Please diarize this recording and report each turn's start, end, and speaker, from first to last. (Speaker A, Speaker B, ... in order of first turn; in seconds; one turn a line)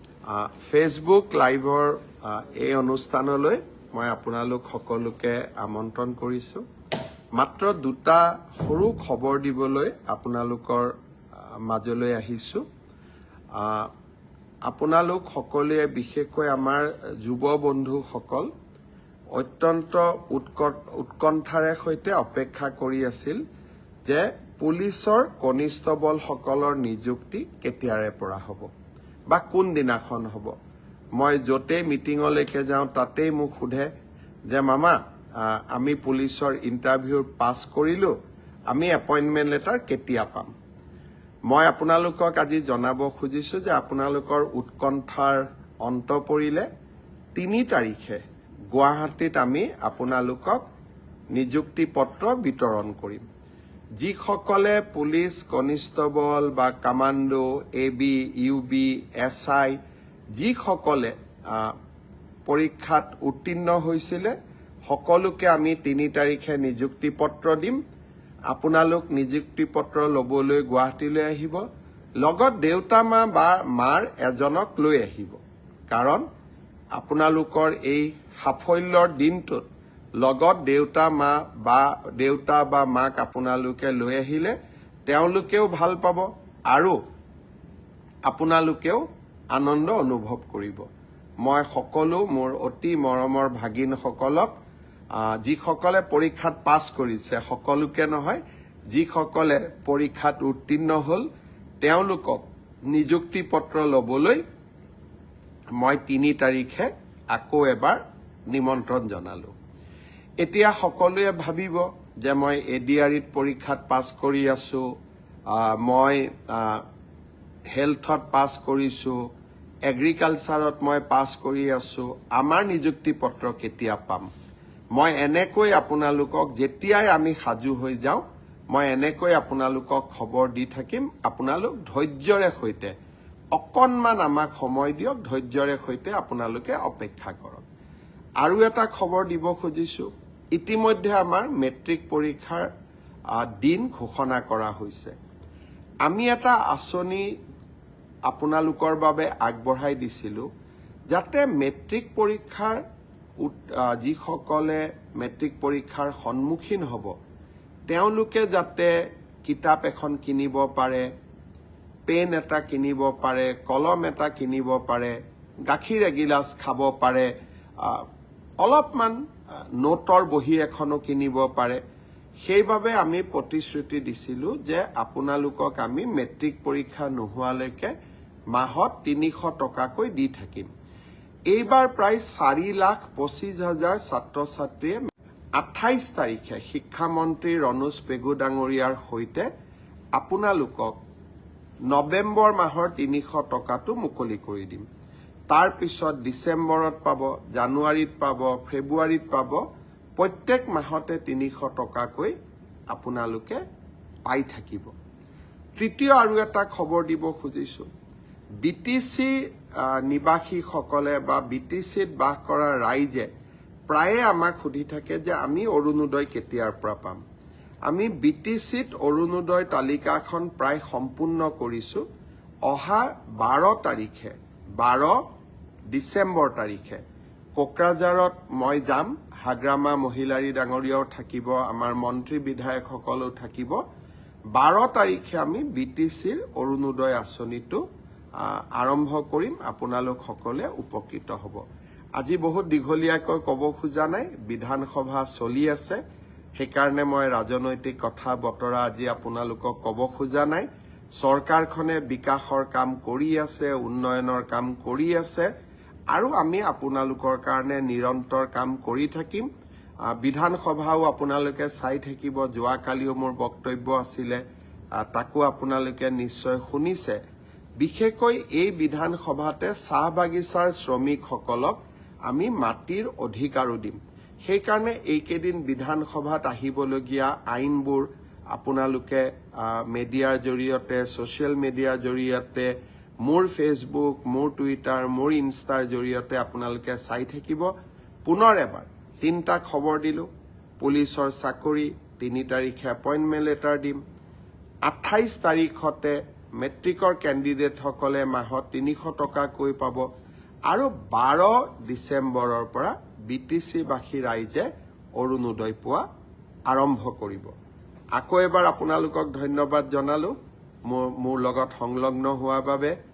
Speaker A: 0.3-6.6
Speaker A: 7.3-10.9
Speaker A: 11.6-12.6
Speaker A: 13.5-13.9
Speaker A: 14.7-18.5
Speaker A: 19.3-23.4
Speaker A: 24.0-28.7
Speaker A: 29.3-30.5
Speaker A: 31.1-33.9
Speaker A: 34.5-38.1
Speaker A: 38.7-40.5
Speaker A: 41.5-46.7
Speaker A: 47.3-48.2
Speaker A: 48.7-50.6
Speaker A: 51.3-53.2
Speaker A: 54.0-59.8
Speaker A: 60.3-61.8
Speaker A: 62.5-64.3
Speaker A: 64.9-67.8
Speaker A: 68.5-71.6
Speaker A: 72.2-75.4
Speaker A: 75.9-76.2
Speaker A: 76.9-79.6
Speaker A: 80.2-84.5
Speaker A: 85.1-87.0
Speaker A: 88.3-90.8
Speaker A: 91.4-94.5
Speaker A: 95.1-98.4
Speaker A: 98.9-101.3
Speaker A: 101.8-104.4
Speaker A: 105.8-109.5
Speaker A: 110.4-114.8
Speaker A: 115.5-116.8
Speaker A: 117.7-119.2
Speaker A: 119.8-124.3
Speaker A: 124.9-132.9
Speaker A: 133.5-137.6
Speaker A: 138.4-142.7
Speaker A: 143.3-145.1
Speaker A: 146.0-147.3
Speaker A: 148.3-150.4
Speaker A: 151.1-152.8
Speaker A: 153.4-157.1
Speaker A: 157.9-158.9
Speaker A: 159.4-161.1
Speaker A: 162.1-165.2
Speaker A: 165.7-167.3
Speaker A: 167.8-168.1
Speaker A: 168.6-169.2
Speaker A: 169.8-171.8
Speaker A: 172.4-177.9
Speaker A: 178.5-180.7
Speaker A: 181.5-185.0
Speaker A: 185.6-189.5
Speaker A: 190.1-190.9
Speaker A: 191.9-194.8
Speaker A: 195.5-199.6
Speaker A: 200.2-202.3
Speaker A: 202.9-203.6
Speaker A: 204.2-204.9
Speaker A: 205.8-207.9
Speaker A: 208.6-213.3
Speaker A: 213.9-217.2
Speaker A: 217.9-222.0
Speaker A: 222.7-225.2
Speaker A: 225.9-227.0
Speaker A: 227.6-233.8
Speaker A: 234.5-237.8
Speaker A: 238.4-241.6
Speaker A: 242.2-246.0
Speaker A: 246.6-250.7
Speaker A: 251.2-255.5
Speaker A: 256.1-259.5
Speaker A: 260.1-264.4
Speaker A: 264.9-267.2
Speaker A: 267.8-282.7
Speaker A: 283.2-287.7
Speaker A: 288.2-290.3
Speaker A: 290.8-294.0
Speaker A: 294.9-300.0
Speaker A: 300.7-306.0
Speaker A: 306.7-307.5
Speaker A: 308.1-310.3
Speaker A: 310.9-312.9